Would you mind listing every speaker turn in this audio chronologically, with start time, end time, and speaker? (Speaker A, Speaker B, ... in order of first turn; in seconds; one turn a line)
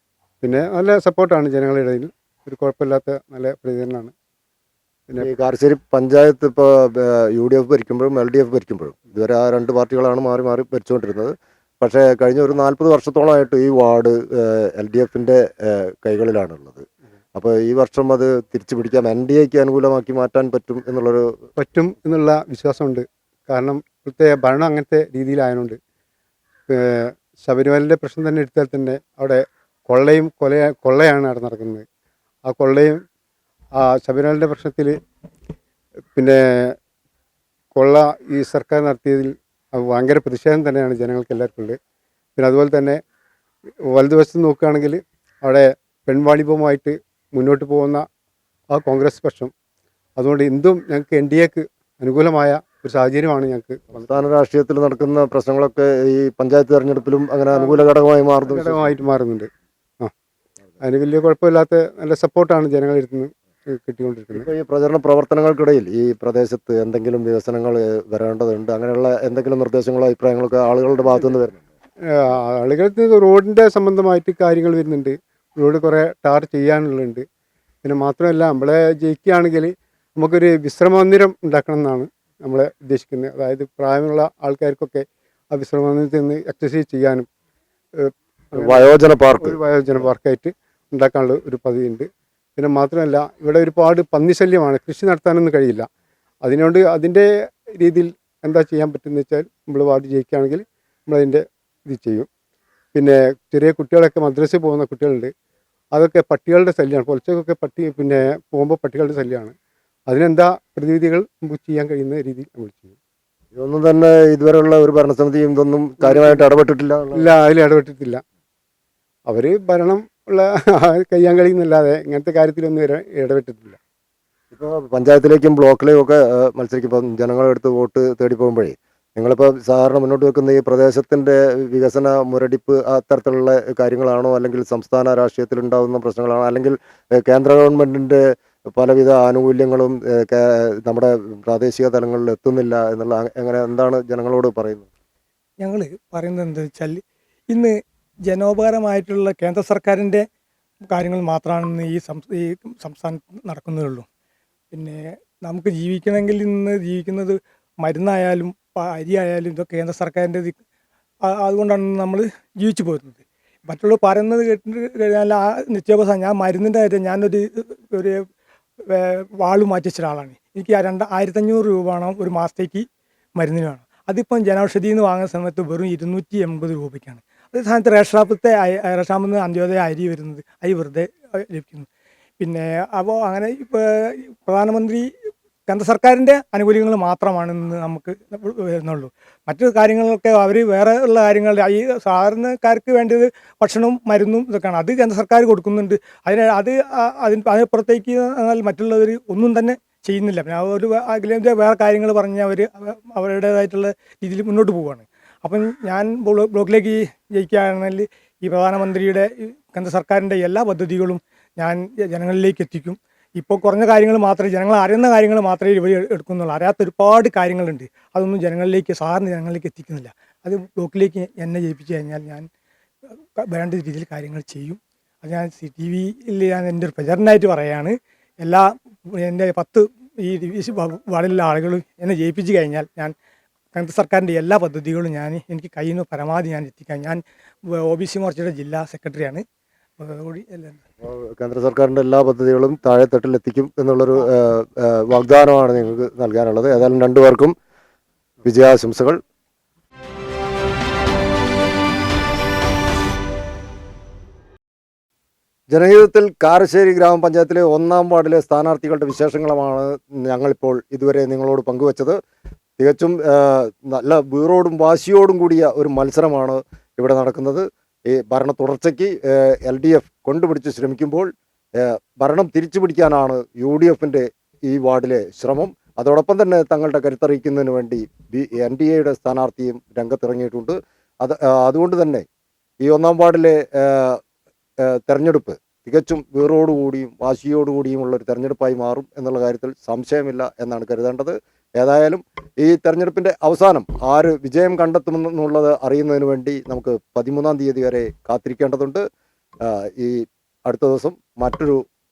Speaker A: 0.4-4.1
Speaker B: 5.2-16.8
Speaker B: 17.4-21.3
Speaker A: 21.6-25.8
Speaker A: 26.7-31.8
Speaker A: 32.5-33.0
Speaker A: 33.8-35.0
Speaker A: 36.1-36.8
Speaker A: 37.8-41.8
Speaker A: 42.4-43.0
Speaker A: 43.9-48.0
Speaker A: 48.7-49.5
Speaker A: 50.2-54.2
Speaker B: 54.0-59.0
Speaker A: 57.5-57.8
Speaker A: 58.5-59.5
Speaker A: 60.8-64.5
Speaker B: 64.3-71.6
Speaker A: 72.1-77.2
Speaker A: 77.8-87.2
Speaker A: 88.0-95.9
Speaker B: 88.5-89.6
Speaker A: 96.4-102.3
Speaker A: 102.9-105.3
Speaker A: 105.9-109.5
Speaker A: 110.1-113.0
Speaker B: 113.5-117.3
Speaker A: 116.0-116.5
Speaker A: 117.1-118.2
Speaker A: 119.3-123.8
Speaker B: 124.5-138.2
Speaker B: 138.8-144.9
Speaker C: 145.6-147.7
Speaker C: 148.3-150.2
Speaker C: 150.9-154.1
Speaker C: 154.7-160.6
Speaker C: 161.3-168.2
Speaker C: 168.9-172.8
Speaker C: 173.4-181.9
Speaker C: 182.4-185.1
Speaker C: 185.7-222.4
Speaker C: 223.4-228.7
Speaker C: 229.2-233.1
Speaker C: 233.7-237.2
Speaker C: 237.8-239.4
Speaker C: 240.0-240.8
Speaker B: 241.0-247.5
Speaker B: 248.4-249.2
Speaker B: 255.7-262.2
Speaker B: 262.8-271.3
Speaker B: 271.8-282.2
Speaker B: 282.8-284.2
Speaker B: 284.9-299.0
Speaker B: 299.7-301.8